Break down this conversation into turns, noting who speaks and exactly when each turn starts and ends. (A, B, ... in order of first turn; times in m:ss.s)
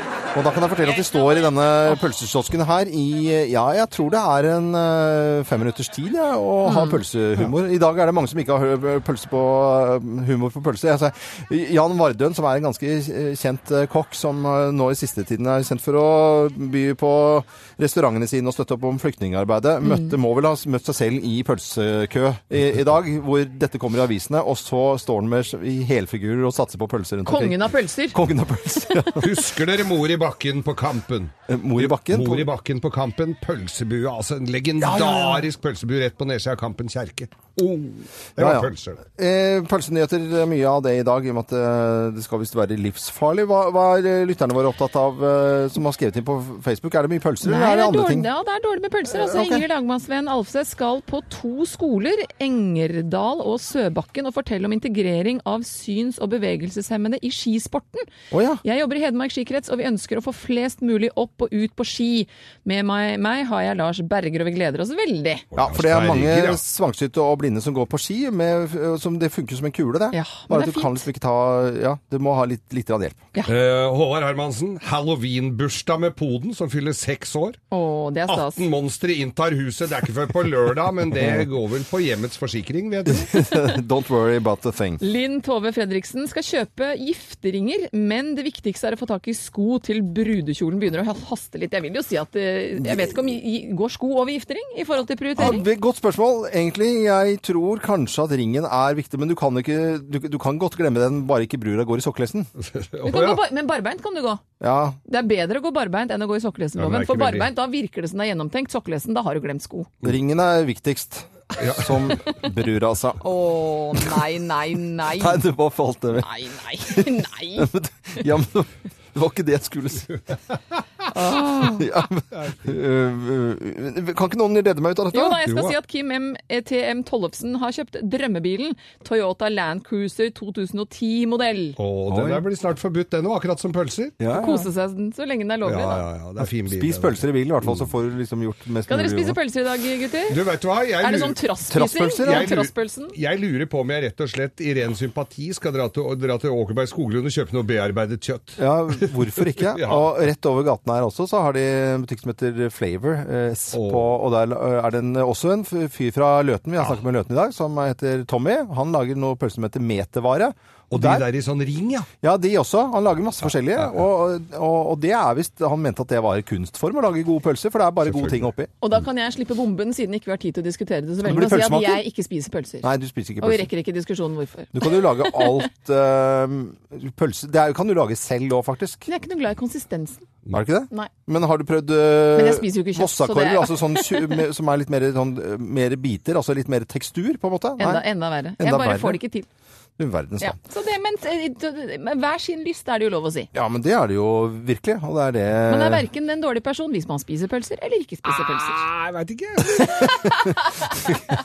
0:00.3-0:29.4 A
0:06.6-0:07.0 B
0:19.8-0:20.1 B
0:27.2-0:28.2 B
0:29.2-0:39.0 C
0:31.5-0:32.5 A
0:34.8-0:35.5 A
0:38.4-0:48.3 A
0:47.4-0:58.1 B
0:49.1-0:49.6 A
0:58.3-0:58.6 A
0:58.6-1:05.4 B
1:05.5-1:06.6 C
1:05.6-1:13.3 A
1:10.1-1:11.0 B
1:13.4-1:17.6 C
1:17.7-1:18.6 B
1:18.3-1:23.3 C
1:23.1-1:25.0 A
1:25.0-1:35.6 B
1:32.8-1:33.1 A
1:35.4-1:42.5 A
1:42.6-1:43.4 C
1:43.0-1:44.4 B
1:44.6-1:45.0 A
1:45.1-1:49.9 B
1:46.8-1:47.5 C
1:50.0-1:53.2 A
1:51.6-1:51.9 C
1:53.2-1:55.4 B
1:55.2-1:56.3 A
1:56.2-1:57.7 B
1:56.8-2:00.2 A
2:01.1-2:01.8 B
2:01.6-2:05.4 A
2:05.1-2:11.8 B
2:05.4-2:05.7 C
2:11.8-2:14.2 C
2:12.1-2:12.4 A
2:14.2-2:14.6 A
2:14.3-2:16.0 B
2:15.6-2:17.8 C
2:16.4-2:19.4 A
2:18.9-2:20.4 B
2:20.3-2:21.4 C
2:21.0-2:23.2 B
2:21.7-2:22.5 A
2:22.2-2:28.6 C
2:28.6-2:41.2 A
2:29.7-2:30.0 C
2:33.7-2:34.1 C
2:40.9-2:42.1 C
2:42.2-2:48.7 A
2:48.1-2:48.5 C
2:48.8-2:52.9 B
2:51.2-2:52.0 A
2:52.8-2:53.7 A
2:53.4-2:55.6 B
2:54.7-2:59.1 A
2:59.1-3:00.3 B
3:00.5-3:08.0 A
3:02.3-3:04.4 B
3:07.8-3:09.5 B
3:08.6-3:09.2 A
3:10.0-3:10.6 A
3:10.4-3:13.5 B
3:13.5-3:16.0 A
3:15.7-3:18.8 B
3:18.3-3:20.3 C
3:20.0-3:21.0 B